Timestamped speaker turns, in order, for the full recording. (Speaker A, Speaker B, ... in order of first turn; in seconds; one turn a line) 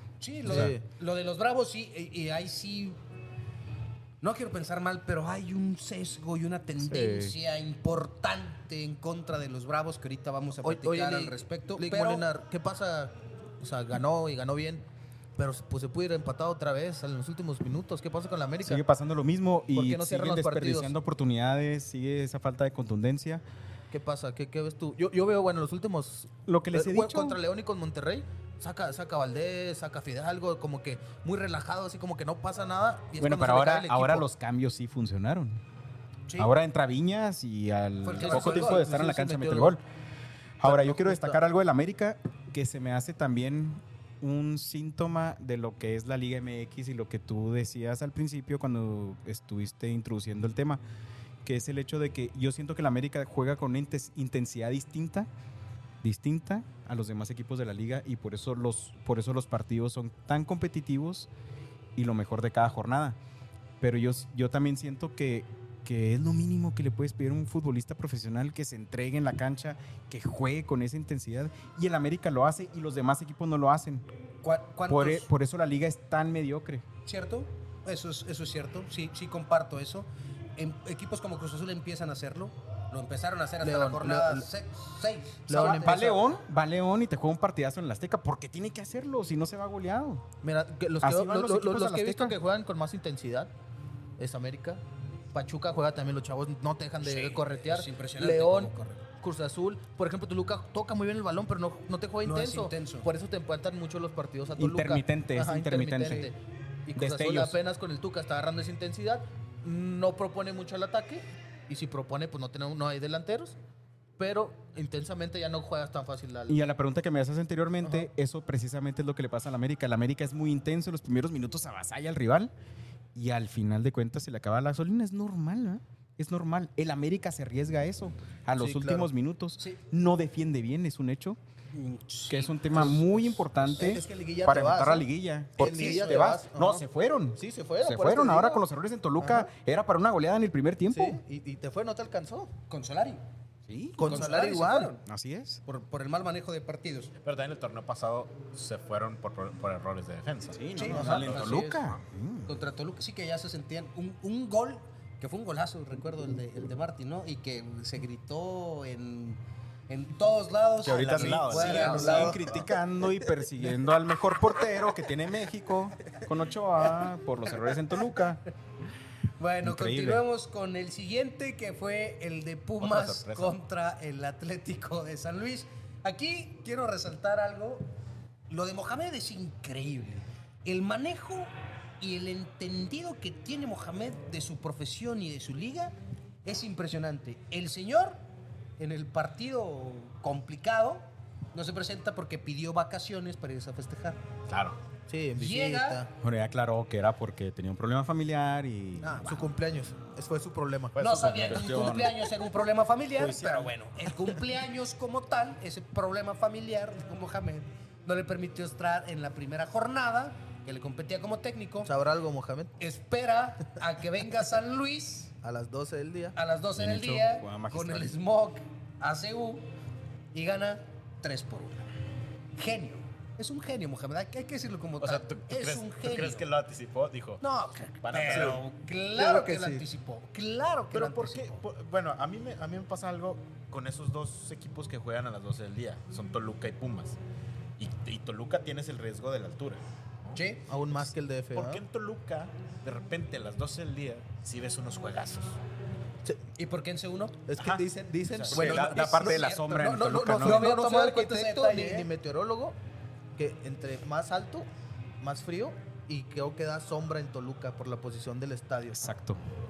Speaker A: 0.2-3.0
Speaker B: 0.5-0.7
Speaker C: 0.5-0.8
Speaker A: 4.2-12.3
Speaker B: 6.8-7.3
Speaker C: 10.6-14.8
Speaker C: 15.4-18.8
Speaker B: 18.6-23.4
Speaker C: 19.7-20.9
Speaker C: 23.9-34.2
Speaker B: 26.5-27.4
Speaker B: 33.2-35.6
Speaker B: 36.4-39.8
Speaker A: 38.0-38.9
Speaker C: 38.2-39.8
Speaker B: 40.6-50.8
Speaker C: 40.6-41.4
Speaker B: 51.4-55.3
Speaker B: 56.0-61.3
Speaker B: 62.0-63.2
Speaker B: 63.8-74.0
Speaker A: 74.4-75.3
Speaker B: 74.9-76.8
Speaker A: 77.0-86.2
Speaker C: 83.6-84.5
Speaker C: 85.5-86.2
Speaker B: 85.5-90.3
Speaker C: 90.4-93.5
Speaker B: 91.0-92.4
Speaker C: 94.2-94.8
Speaker C: 95.3-113.5
Speaker A: 97.0-99.0
Speaker A: 102.2-103.1
Speaker B: 104.6-106.3
Speaker B: 107.0-107.6
Speaker C: 114.2-116.6
Speaker B: 116.5-122.5
Speaker B: 123.1-131.4
Speaker C: 128.6-129.1
Speaker A: 131.7-132.9
Speaker B: 132.3-141.2
Speaker C: 132.7-136.8
Speaker A: 135.6-136.2
Speaker C: 137.3-138.6
Speaker C: 139.2-139.5
Speaker C: 140.9-142.5
Speaker A: 142.7-143.2
Speaker B: 143.7-144.3
Speaker C: 144.0-144.9
Speaker A: 144.0-145.0
Speaker B: 145.0-145.6
Speaker A: 145.7-147.1
Speaker D: 147.2-151.6
Speaker B: 150.5-152.5
Speaker A: 150.7-151.7
Speaker C: 150.8-151.7
Speaker A: 152.5-162.4
Speaker B: 160.8-168.4
Speaker D: 160.8-162.7
Speaker C: 161.7-162.4
Speaker A: 169.4-177.8
Speaker B: 169.6-170.2
Speaker D: 172.8-173.6
Speaker A: 178.5-185.9
Speaker A: 186.4-188.2
Speaker A: 188.8-194.2
Speaker D: 194.5-194.8
Speaker C: 195.1-196.1
Speaker A: 195.3-196.0
Speaker B: 196.2-199.2
Speaker A: 199.0-199.5
Speaker C: 199.2-201.0
Speaker D: 200.9-202.0
Speaker A: 201.0-211.9
Speaker B: 201.5-202.2
Speaker B: 203.1-203.7
Speaker C: 211.8-212.8
Speaker A: 212.8-215.3
Speaker C: 215.4-216.3
Speaker A: 216.3-219.7
Speaker B: 216.7-218.1
Speaker A: 220.3-221.8
Speaker A: 222.5-226.5
Speaker D: 225.0-227.4
Speaker A: 227.4-231.6
Speaker D: 228.0-228.7
Speaker C: 228.3-228.6
Speaker C: 229.1-229.8
Speaker D: 230.9-237.2
Speaker D: 237.8-240.4
Speaker A: 240.3-240.6
Speaker C: 240.7-241.8
Speaker D: 241.0-245.6
Speaker A: 246.6-247.4
Speaker C: 247.5-252.8
Speaker D: 247.6-249.1
Speaker B: 248.5-250.7
Speaker A: 248.5-252.1
Speaker C: 253.3-254.7
Speaker C: 255.2-259.1
Speaker B: 258.9-259.4